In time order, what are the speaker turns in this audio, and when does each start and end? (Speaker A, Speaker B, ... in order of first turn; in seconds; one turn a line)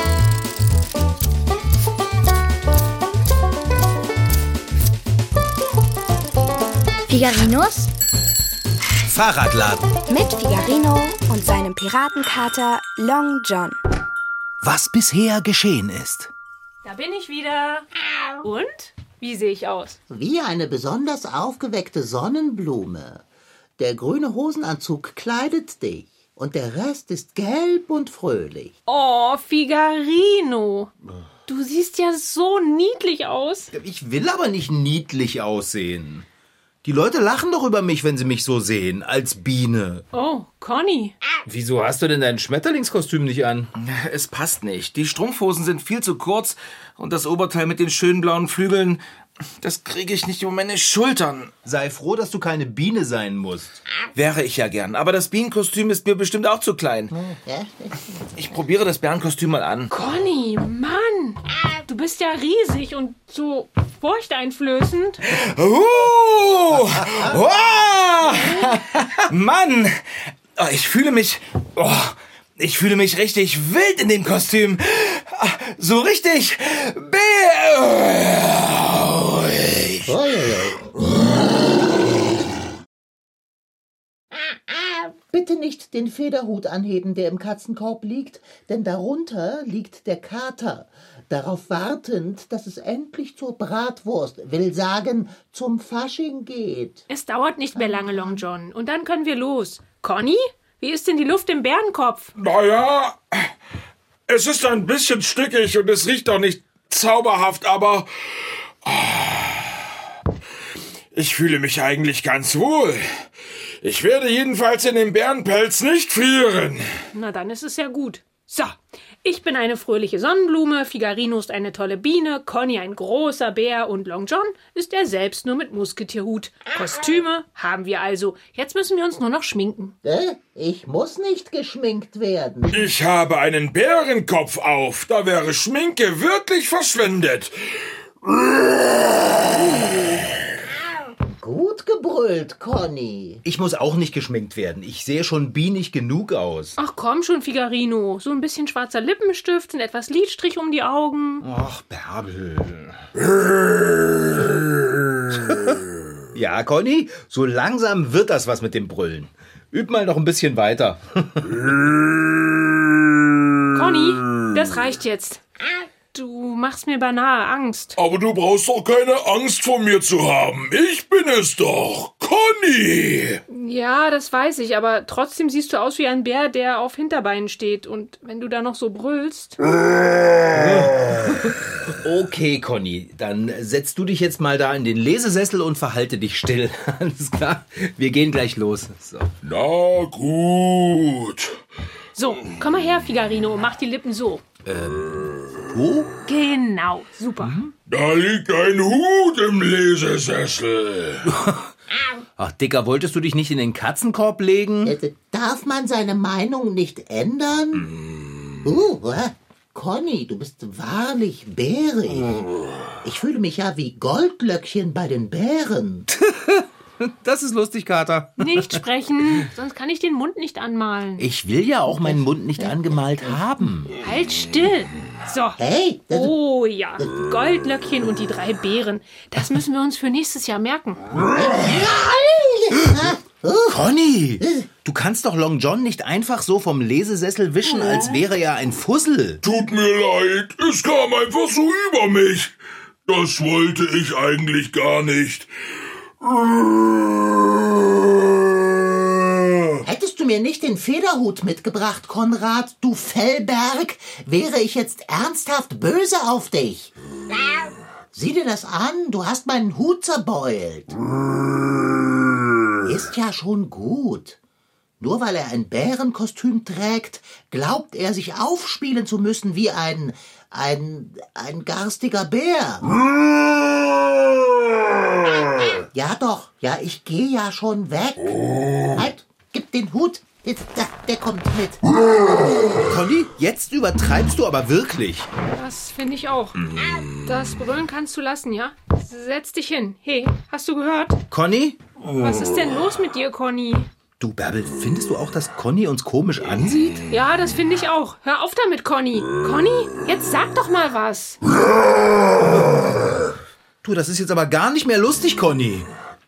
Speaker A: 7.1-7.9
Speaker B: 9.1-9.9
Speaker A: 10.1-13.8
Speaker B: 14.6-16.3
Speaker C: 16.8-17.9
Speaker C: 18.4-20.0
Speaker D: 20.1-23.2
Speaker D: 23.8-28.7
Speaker C: 28.9-30.9
Speaker C: 31.5-33.7
Speaker B: 33.7-36.2
Speaker B: 36.8-40.0
Speaker C: 40.1-41.1
Speaker B: 41.5-43.7
Speaker E: 43.8-49.0
Speaker E: 49.6-51.5
Speaker B: 51.6-53.8
Speaker E: 54.1-57.1
Speaker D: 57.1-58.3
Speaker E: 58.3-59.9
Speaker C: 59.9-65.2
Speaker E: 65.3-70.0
Speaker B: 68.7-69.0
Speaker E: 70.5-80.1
Speaker D: 80.1-81.0
Speaker D: 84.7-97.0
Speaker C: 97.1-102.3
Speaker D: 97.9-98.3
Speaker F: 102.4-103.2
Speaker F: 104.3-108.0
Speaker E: 106.5-107.0
Speaker F: 108.9-109.8
Speaker F: 111.1-113.0
Speaker F: 113.8-116.8
Speaker C: 117.1-129.9
Speaker D: 130.0-132.9
Speaker F: 132.7-137.8
Speaker D: 139.8-140.2
Speaker D: 141.3-143.4
Speaker B: 143.4-146.8
Speaker C: 146.8-151.4
Speaker B: 151.4-153.0
Speaker B: 156.3-161.7
Speaker C: 163.7-165.4
Speaker C: 166.1-167.9
Speaker F: 168.0-173.4
Speaker C: 173.5-179.6
Speaker B: 180.5-189.3
Speaker F: 189.4-191.6
Speaker C: 192.1-194.4
Speaker B: 194.6-196.1
Speaker C: 196.3-197.6
Speaker B: 197.4-197.7
Speaker F: 197.9-201.3
Speaker B: 201.3-201.7
Speaker B: 202.4-204.9
Speaker D: 204.8-207.9
Speaker D: 208.6-212.5
Speaker D: 213.0-216.1
Speaker B: 216.1-218.8
Speaker C: 218.4-221.3
Speaker B: 221.2-223.9
Speaker D: 221.9-222.7
Speaker C: 224.0-231.1
Speaker D: 225.6-226.3
Speaker D: 231.4-233.8
Speaker B: 233.7-239.4
Speaker D: 234.4-234.7
Speaker F: 239.4-242.5
Speaker F: 243.1-245.5
Speaker F: 246.2-246.6
Speaker D: 249.8-256.9
Speaker D: 258.1-261.0
Speaker D: 262.8-264.4
Speaker D: 265.0-272.9
Speaker D: 275.9-278.4
Speaker D: 278.9-281.9
Speaker D: 282.4-282.7
Speaker B: 282.8-285.3
Speaker C: 285.5-286.6
Speaker C: 287.2-291.2
Speaker B: 291.3-291.8
Speaker C: 292.2-293.9
Speaker B: 294.2-297.0
Speaker C: 297.1-301.4
Speaker B: 303.8-305.9